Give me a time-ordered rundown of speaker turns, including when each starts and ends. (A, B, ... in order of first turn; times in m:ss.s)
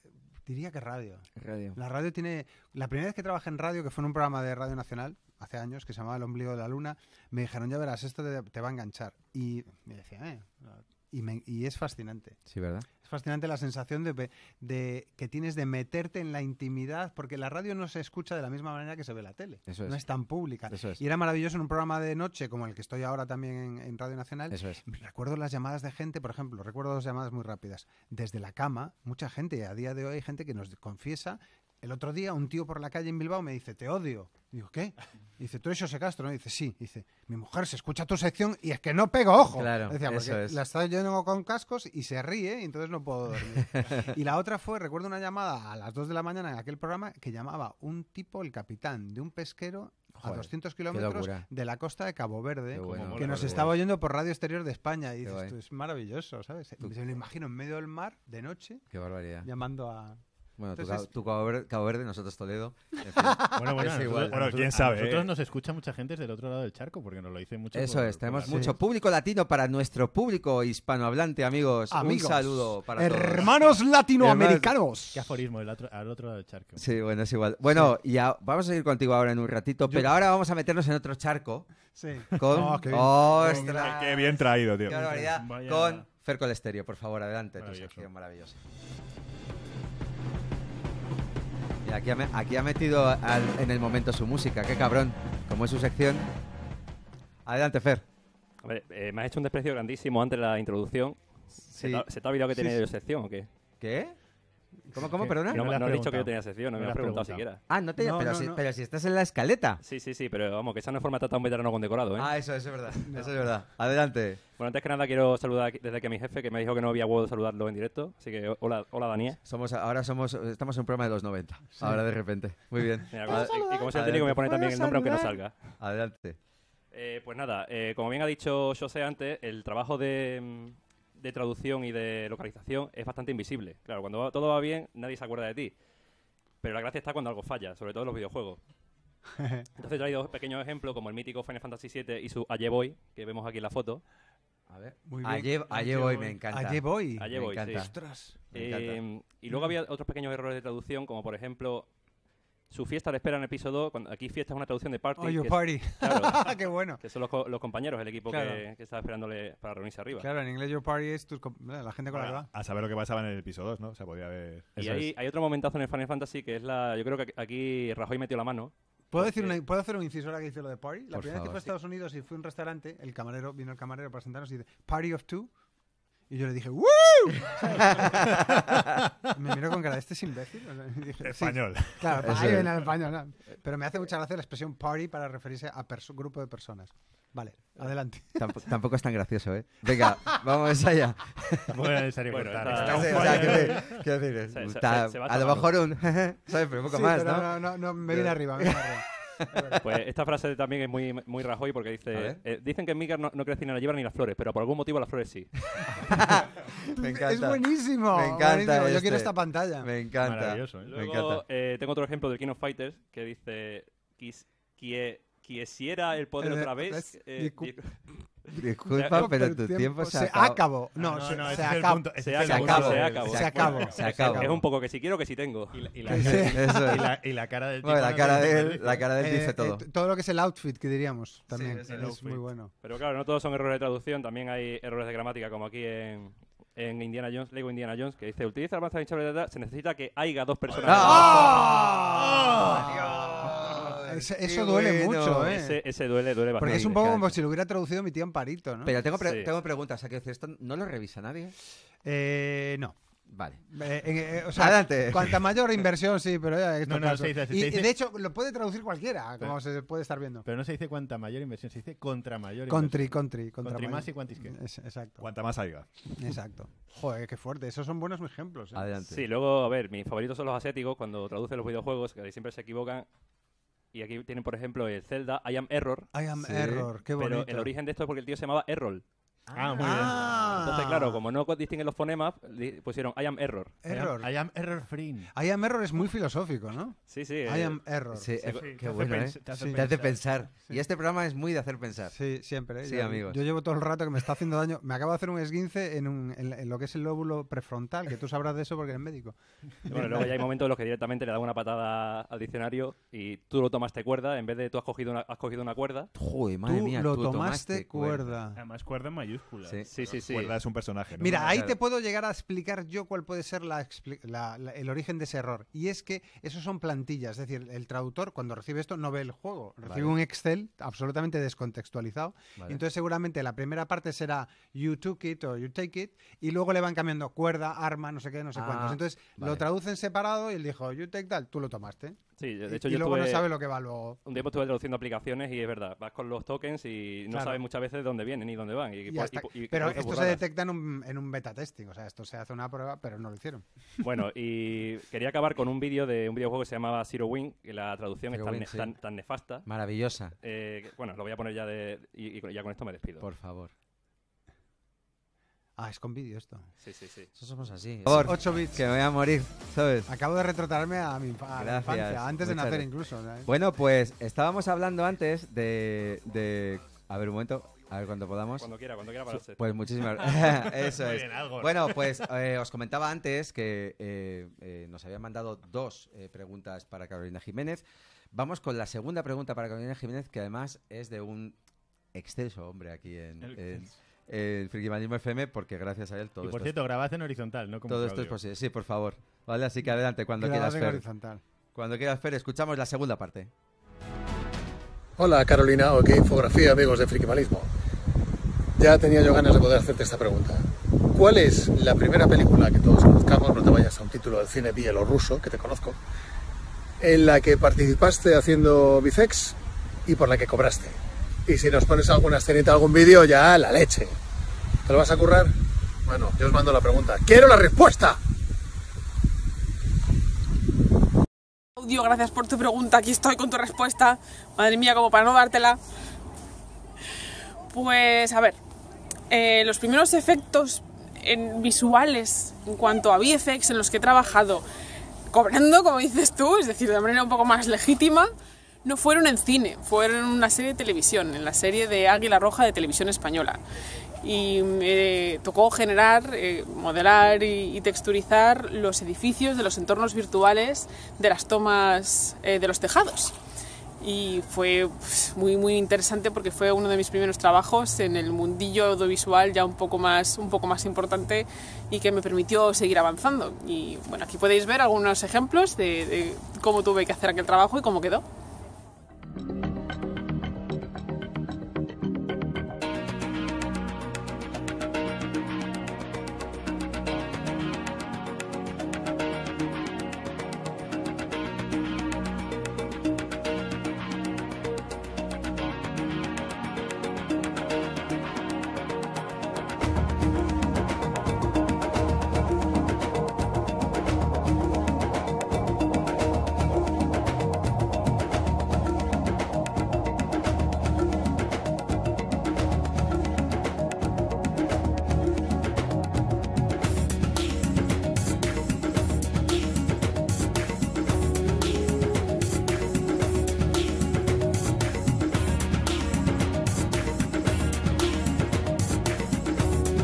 0:00.4-0:12.4 A
0:01.4-0:01.8 B
0:12.5-0:12.9 B
0:13.0-0:58.9 A
0:19.7-0:20.0 B
0:20.7-0:21.0 B
0:24.5-0:24.8 B
0:39.5-0:40.6 B
0:43.7-0:44.1 B
0:50.2-0:51.4 B
0:52.7-0:53.7 B
0:52.9-0:53.8 C
0:55.2-0:55.5 B
0:58.9-0:59.5 B
0:59.4-1:00.2 A
1:00.6-1:04.4 B
1:00.7-1:01.1 A
1:03.5-1:08.8 C
1:04.3-1:05.3 D
1:07.7-1:14.7 B
1:08.5-1:08.7 A
1:11.9-1:15.3 A
1:15.1-1:17.0 C
1:16.8-1:21.7 B
1:22.0-1:23.9 A
1:22.3-1:28.6 B
1:23.4-1:23.8 E
1:23.4-1:25.2 D
1:24.9-1:26.0 E
1:27.6-1:28.1 C
1:31.8-1:36.3 B
1:37.4-1:38.0 B
1:38.6-1:43.5 F
1:41.7-1:42.0 B
1:43.8-1:44.2 B
1:44.9-1:45.6 B
1:45.0-1:47.4 C
1:45.5-1:47.6 F
1:47.7-1:49.8 B
1:48.0-1:48.6 A
1:49.8-1:52.3 F
1:52.2-1:54.4 B
1:54.6-1:59.4 F
1:59.4-2:06.4 B
2:01.8-2:02.0 A
2:03.1-2:05.6 F
2:06.9-2:15.7 F
2:16.6-2:18.6 F
2:19.3-2:19.7 A
2:19.8-2:24.0 F
2:24.7-2:27.9 B
2:25.1-2:28.4 A
2:27.2-2:27.9 F
2:28.5-2:29.0 B
2:28.5-2:31.9 F
2:32.7-2:40.3 F
2:35.2-2:37.0 A
2:38.3-2:38.6 A
2:40.2-2:42.5 A
2:42.1-2:45.0 D
2:44.8-2:49.6 F
2:49.1-2:55.5 A
2:51.1-2:51.6 B
2:56.3-2:58.3 A
2:57.7-2:58.8 B
2:59.3-3:08.4 A
3:01.2-3:02.6 D
3:02.2-3:02.8 B
3:08.4-3:11.7 B
3:11.7-3:14.0 C
3:12.3-3:13.8 F
3:12.6-3:18.8 B
3:13.2-3:13.5 E
3:14.5-3:15.7 F
3:16.9-3:19.8 A
3:19.8-3:25.6 F
3:22.1-3:22.4 B
3:26.0-3:31.4 B
3:27.0-3:29.9 A
3:30.2-3:30.9 C
3:30.8-3:38.0 F
3:36.4-3:38.0 A
3:38.6-3:40.6 B
3:38.9-3:39.2 F
3:39.0-3:44.6 A
3:41.0-3:44.1 C
3:42.2-3:46.2 F
3:42.4-3:44.5 B
3:45.7-3:49.1 C
3:46.1-3:46.8 A
3:46.3-3:47.1 B
3:47.8-3:49.8 B
3:49.2-3:52.7 A
3:51.5-3:52.1 B
3:51.9-3:52.4 E
3:52.8-4:01.7 F
4:00.8-4:05.6 B
4:00.9-4:03.5 A
4:04.0-4:05.8 A
4:05.5-4:07.1 F
4:06.6-4:08.9 A
4:06.6-4:07.2 B
4:08.8-4:11.5 B
4:09.2-4:09.5 F
4:12.0-4:12.9 A
4:13.3-4:13.8 B
4:13.6-4:20.4 A
4:14.5-4:15.4 B
4:16.8-4:17.9 C
4:20.4-4:24.6 C
4:22.7-4:25.2 A
4:25.2-4:25.9 D
4:26.2-4:28.9 A
4:28.7-4:29.3 B
4:29.1-4:33.1 F
4:33.9-4:36.1 F
4:36.1-4:37.7 A
4:36.4-4:36.9 B
4:37.2-4:39.0 F
4:39.5-4:40.2 C
4:39.6-4:40.5 B
4:39.7-4:43.8 F
4:39.8-4:41.2 A
4:43.8-4:44.3 A
4:43.8-4:45.3 C
4:45.3-4:48.6 A
4:47.1-4:47.8 F
4:48.1-4:52.1 B
4:48.6-4:50.2 E
4:49.5-4:49.8 A
4:52.1-5:00.3 A
4:52.8-4:53.4 B
4:59.9-5:06.1 F
5:06.1-5:08.3 B
5:06.6-5:08.6 A
5:08.6-5:10.2 E
5:09.9-5:10.5 F
5:10.1-5:11.6 D
5:11.2-5:34.2 A
5:11.4-5:11.7 B
5:19.8-5:20.2 B
5:22.6-5:22.8 B
5:28.5-5:29.6 B
5:32.4-5:33.5 F
5:34.2-5:40.4 F
5:37.3-5:37.6 A
5:39.1-5:43.6 A
5:44.0-5:49.6 F
5:48.3-5:48.9 B
5:49.6-5:50.4 B
5:50.4-5:53.2 F
5:53.2-5:53.7 B
5:55.8-5:56.7 A
5:56.8-5:57.3 F
5:57.3-6:00.1 B
5:58.1-5:58.8 A
6:00.1-6:03.5 A
6:01.6-6:02.8 B
6:03.4-6:08.7 B
6:08.6-6:09.8 F
6:09.3-6:21.6 B
6:10.2-6:12.2 C
6:22.1-6:26.8 B
6:23.4-6:23.9 E
6:26.4-6:28.4 C
6:27.9-6:31.0 B
6:30.4-6:31.4 A
6:31.7-6:33.5 B
6:35.2-6:37.7 G
6:38.8-6:46.0 G
6:47.0-6:54.1 G
6:54.8-6:55.5 G
6:56.0-6:58.2 G
7:01.8-7:05.8 H
7:07.7-7:08.6 H
7:09.3-7:14.6 H
7:15.3-7:18.3 H
7:18.8-7:23.6 H
7:24.2-7:33.3 H
7:34.0-7:48.2 H